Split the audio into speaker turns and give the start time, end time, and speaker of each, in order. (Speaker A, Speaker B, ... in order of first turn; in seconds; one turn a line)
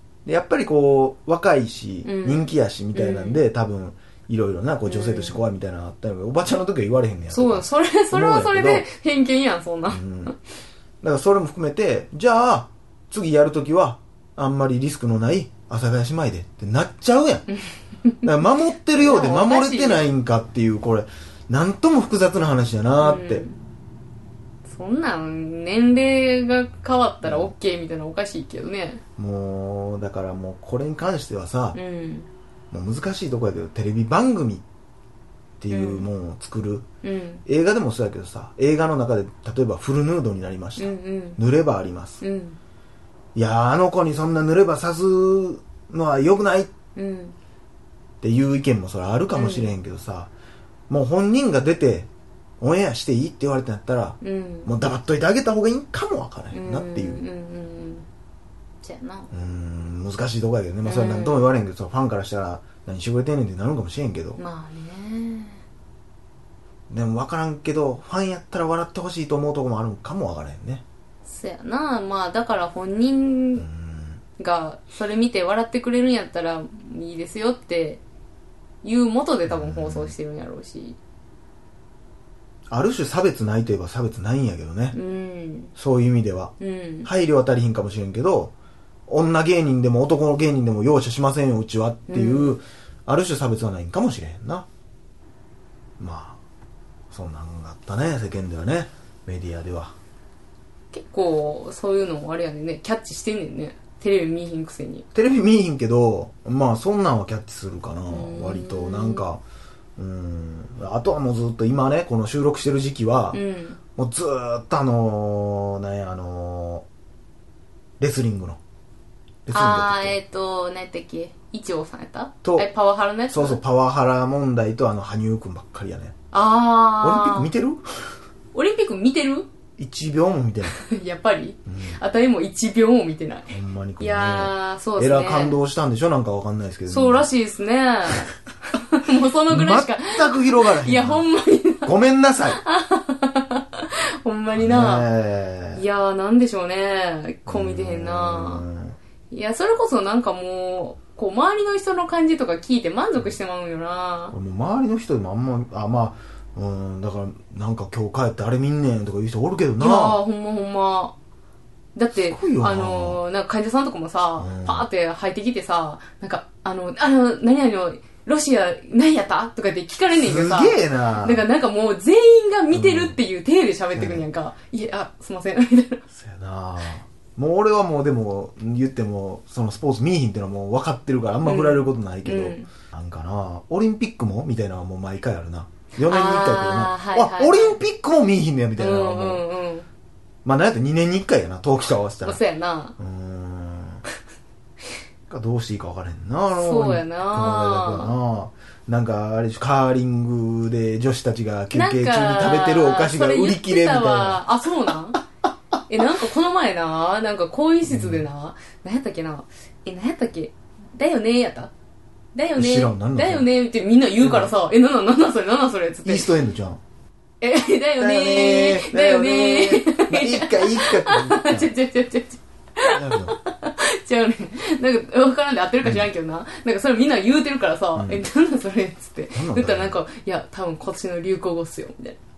Speaker A: 0.2-8.8
Speaker B: 2.0-3.4
Speaker B: 4.8-5.4
Speaker B: 7.3-10.3
Speaker A: 9.9-10.3
Speaker A: 11.0-17.4
Speaker B: 17.5-18.2
Speaker A: 18.2-23.4
Speaker B: 18.9-20.1
Speaker B: 23.0-23.6
Speaker B: 24.6-29.0
Speaker A: 27.2-27.5
Speaker A: 29.2-31.8
Speaker B: 31.7-32.3
Speaker A: 32.7-34.6
Speaker A: 35.6-36.8
Speaker B: 35.7-36.1
Speaker B: 37.0-37.4
Speaker A: 37.5-42.2
Speaker B: 40.8-41.4
Speaker B: 42.2-42.6
Speaker A: 43.3-46.7
Speaker B: 46.9-47.4
Speaker A: 48.2-50.3
Speaker B: 49.3-49.7
Speaker A: 50.9-52.1
Speaker A: 52.6-57.2
Speaker B: 54.2-54.7
Speaker B: 56.5-58.0
Speaker B: 58.8-59.3
Speaker A: 59.3-64.4
Speaker B: 60.8-61.5
Speaker B: 64.4-65.6
Speaker A: 66.9-70.8
Speaker B: 71.2-73.7
Speaker A: 73.6-74.2
Speaker B: 74.4-78.0
Speaker B: 78.8-81.0
Speaker A: 79.5-80.1
Speaker A: 82.7-85.0
Speaker B: 84.9-85.7
Speaker A: 85.8-86.5
Speaker B: 86.6-87.1
Speaker A: 87.0-88.5
Speaker A: 89.1-94.7
Speaker B: 92.1-92.6
Speaker A: 96.0-96.4
Speaker A: 97.1-99.9
Speaker B: 100.9-105.0
Speaker A: 105.1-109.4
Speaker B: 108.1-109.2
Speaker A: 110.0-113.4
Speaker B: 113.3-113.8
Speaker A: 114.0-116.8
Speaker A: 118.0-118.6
Speaker A: 119.5-120.2
Speaker B: 119.5-123.6
Speaker A: 123.3-126.1
Speaker B: 126.3-127.5
Speaker A: 127.0-127.9
Speaker B: 128.5-129.5
Speaker A: 129.8-130.8
Speaker B: 130.7-135.6
Speaker A: 131.7-132.0
Speaker A: 133.5-137.3
Speaker B: 136.9-145.1
Speaker A: 139.5-141.3
Speaker A: 141.8-142.6
Speaker A: 144.5-145.8
Speaker B: 145.7-148.6
Speaker A: 147.5-149.0
Speaker B: 149.3-154.3
Speaker A: 154.3-160.2
Speaker B: 159.8-161.1
Speaker B: 161.9-176.0
Speaker A: 162.1-163.2
Speaker A: 164.4-164.9
Speaker A: 170.1-171.4
Speaker A: 172.7-173.2
Speaker A: 173.9-174.3
Speaker A: 176.1-189.4
Speaker B: 181.4-182.7
Speaker B: 186.0-187.8
Speaker B: 188.8-189.9
Speaker A: 190.4-192.4
Speaker B: 192.2-192.9
Speaker A: 193.0-194.0
Speaker A: 195.3-204.4
Speaker B: 196.5-198.1
Speaker B: 201.7-205.2
Speaker B: 205.9-211.7
Speaker A: 207.8-208.2
Speaker B: 212.3-216.3
Speaker A: 212.6-213.5
Speaker A: 214.2-214.5
Speaker A: 216.0-216.8
Speaker B: 217.4-232.2
Speaker A: 218.0-221.7
Speaker A: 222.8-223.3
Speaker A: 225.8-226.1
Speaker A: 227.9-228.2
Speaker A: 229.3-230.0